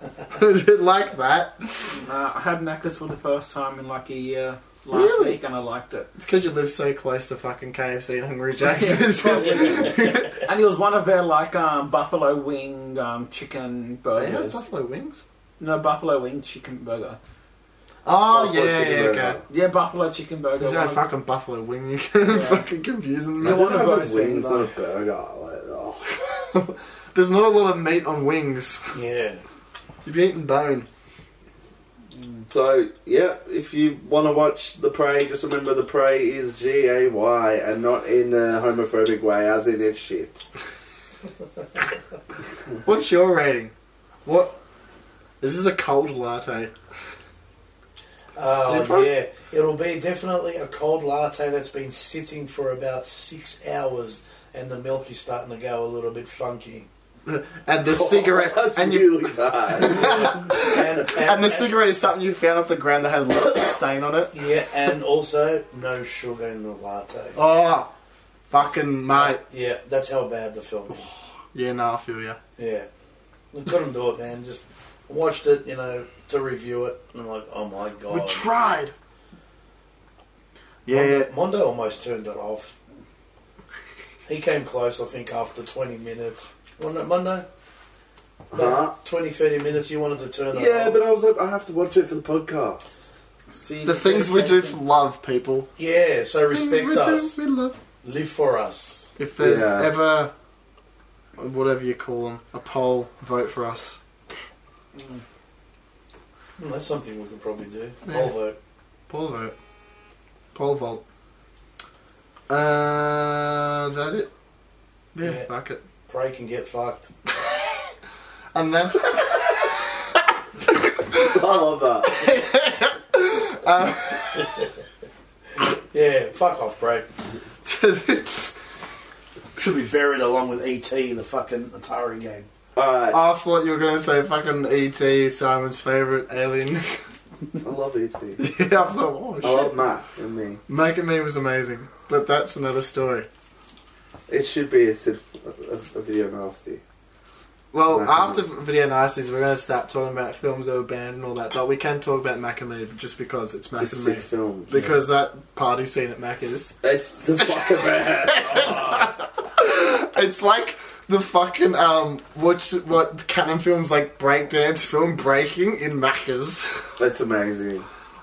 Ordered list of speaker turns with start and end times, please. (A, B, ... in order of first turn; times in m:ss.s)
0:00.3-0:02.0 A
0:01.9-0:06.1 B
0:04.9-0:05.4 A
0:06.2-0:10.4 A
0:08.6-0:14.6 B
0:14.2-0:15.2 A
0:15.6-0:17.2 B
0:18.0-0:19.4 A
0:18.3-0:19.4 C
0:19.5-0:21.1 B
0:20.6-0:23.8 A
0:22.3-0:22.7 B
0:23.4-0:24.7 B
0:23.4-0:26.5 C
0:26.5-0:28.9 A
0:28.9-0:29.4 D
0:30.0-0:30.9 A
0:32.1-0:32.5 B
0:32.5-0:40.4 C
0:42.8-0:43.7 A
0:44.2-0:44.6 A
0:45.4-0:46.7 A
0:48.4-0:56.9 D
0:48.7-0:49.2 A
0:57.3-1:04.4 A
0:57.8-1:00.3 C
0:59.8-1:01.8 D
1:04.3-1:07.4 D
1:07.4-1:07.9 A
1:08.5-1:09.4 A
1:09.1-1:11.1 D
1:11.5-1:12.4 A
1:12.6-1:12.9 D
1:13.5-1:18.5 D
1:18.1-1:18.9 A
1:20.9-1:21.3 A
1:20.9-1:22.8 D
1:24.3-1:27.5 D
1:28.5-1:29.0 C
1:28.5-1:31.0 D
1:30.5-1:33.0 C
1:33.5-1:34.8 B
1:33.8-1:35.7 A
1:35.8-1:37.4 D
1:36.5-1:37.8 A
1:38.0-1:39.1 D
1:39.2-1:40.3 A
1:39.4-1:39.9 C
1:41.4-1:44.0 A
1:44.9-1:45.2 B
1:46.6-1:48.6 D
1:48.1-1:48.4 A
1:49.1-1:49.6 A
1:50.5-1:51.0 A
1:52.5-1:54.3 A
1:55.2-1:55.8 A
1:55.2-1:55.5 D
1:56.0-1:57.1 D
1:57.4-1:57.9 A
1:58.5-2:00.2 A
2:00.7-2:01.4 A
2:01.2-2:02.2 C
2:02.0-2:04.5 A
2:05.6-2:07.1 D
2:07.6-2:08.5 A
2:09.6-2:12.5 D
2:12.8-2:13.2 C
2:13.1-2:17.0 A
2:17.6-2:18.5 C
2:18.4-2:19.8 A
2:19.4-2:20.6 C
2:20.7-2:23.3 A
2:24.3-2:26.8 C
2:27.7-2:36.7 A
2:27.9-2:28.4 C
2:33.8-2:34.7 C
2:36.8-2:39.2 C
2:37.4-2:46.8 A
2:47.0-2:47.9 C